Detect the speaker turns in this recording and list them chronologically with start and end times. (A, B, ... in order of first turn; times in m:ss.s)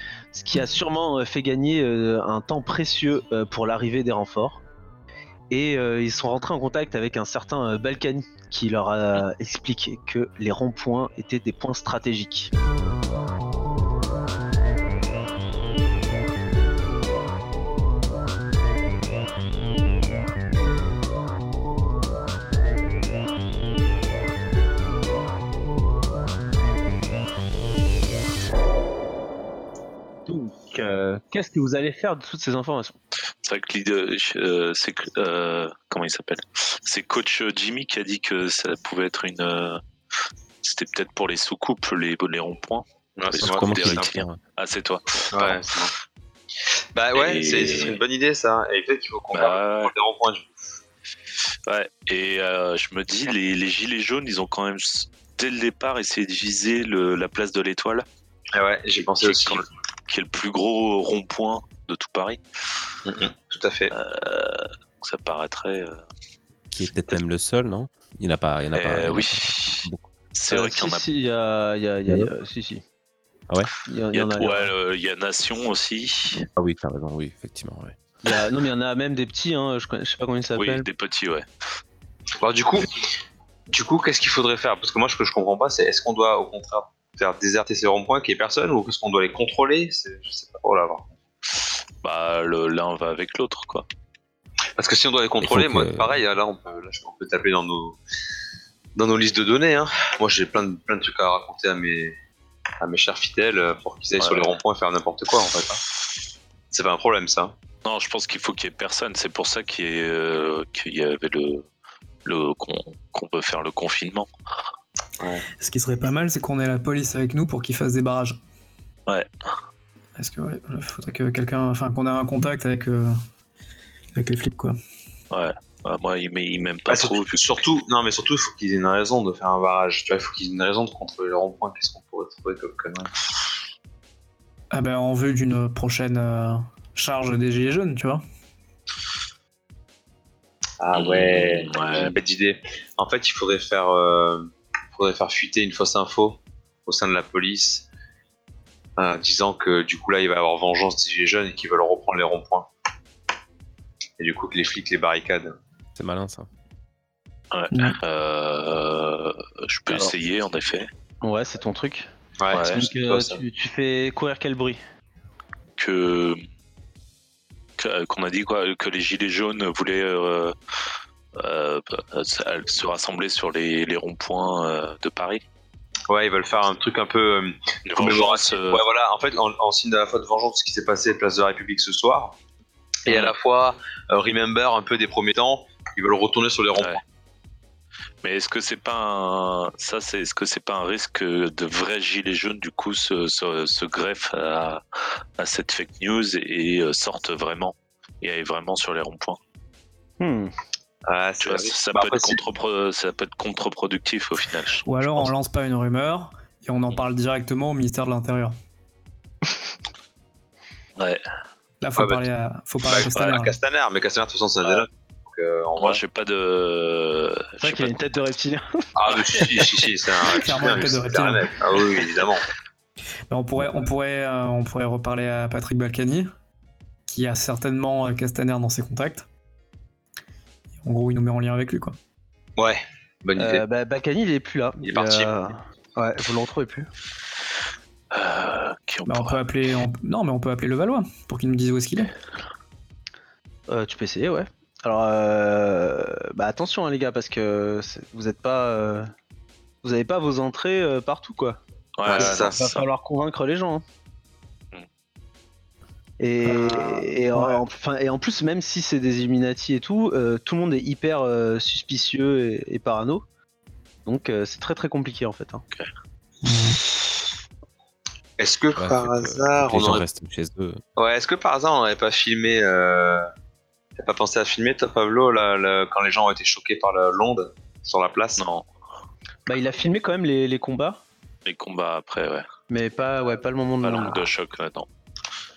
0:00.3-0:04.6 A
0:05.5-0:12.5 A
0:30.3-0:33.0 A
0:33.4-0:39.8 B
0:40.6-0:45.7 B
0:43.2-0:44.1 C
0:43.4-0:44.4 D
0:45.3-0:45.9 C
0:46.9-0:50.5 C
0:47.1-0:48.0 B
0:49.3-0:49.9 B
0:51.7-0:58.0 B
0:58.5-0:59.6 C
0:59.0-1:02.4 B
1:03.0-1:03.9 C
1:03.9-1:06.0 B
1:06.7-1:10.1 D
1:08.7-1:11.0 B
1:10.5-1:12.8 A
1:13.8-1:14.7 A
1:14.1-1:16.4 B
1:16.6-1:18.0 D
1:18.2-1:20.9 A
1:20.5-1:21.4 B
1:22.4-1:22.9 C
1:23.7-1:31.1 C
1:32.0-1:33.8 B
1:34.8-1:38.0 C
1:35.4-1:36.1 D
1:39.0-1:42.2 C
1:42.8-1:45.8 C
1:44.2-1:44.5 B
1:46.7-1:47.5 C
1:47.8-1:51.6 B
1:52.2-1:54.3 B
1:55.2-1:55.4 C
1:55.6-1:58.4 E
2:00.2-2:03.2 E
2:04.1-2:04.8 E
2:05.3-2:07.5 B
2:06.9-2:13.1 C
2:14.7-2:18.2 E
2:20.8-2:27.9 C
2:20.9-2:22.1 B
2:29.0-2:32.7 C
2:34.2-2:35.5 C
2:36.0-2:36.5 D
2:37.5-2:40.9 B
2:37.7-2:38.0 E
2:41.2-2:42.1 A
2:42.4-2:43.4 C
2:42.5-2:42.8 B
2:42.6-2:44.8 A
2:45.8-2:46.4 B
2:47.8-2:50.5 B
2:51.4-2:55.4 B
2:56.1-3:02.4 C
2:57.8-2:58.8 B
3:03.0-3:07.0 C
3:03.1-3:03.3 B
3:08.2-3:19.4 B
3:20.2-3:20.5 A
3:21.1-3:22.4 C
3:21.4-3:25.3 B
3:24.8-3:28.5 E
3:31.8-3:33.5 E
3:32.0-3:32.2 C
3:32.8-3:36.0 C
3:33.1-3:33.4 B
3:35.8-3:37.9 B
3:37.6-3:38.8 A
3:39.0-3:42.4 C
3:40.3-3:41.4 E
3:43.3-3:46.3 E
3:47.0-3:49.2 E
3:50.8-3:52.0 E
3:52.6-3:53.6 C
3:53.4-3:56.9 A
3:54.8-3:55.3 C
3:58.1-3:59.4 B
3:59.0-4:02.1 E
4:03.7-4:09.1 A
4:09.8-4:11.6 A
4:12.0-4:12.8 B
4:12.0-4:12.6 C
4:12.1-4:13.8 A
4:16.2-4:23.2 A
4:16.4-4:17.6 E
4:24.0-4:25.6 A
4:26.4-4:26.8 E
4:28.4-4:30.0 C
4:28.7-4:30.8 D
4:31.0-4:33.3 C
4:34.0-4:38.4 C
4:38.4-4:38.6 B
4:39.5-4:41.0 A
4:41.4-4:42.4 B
4:42.7-4:44.3 A
4:43.8-4:44.9 B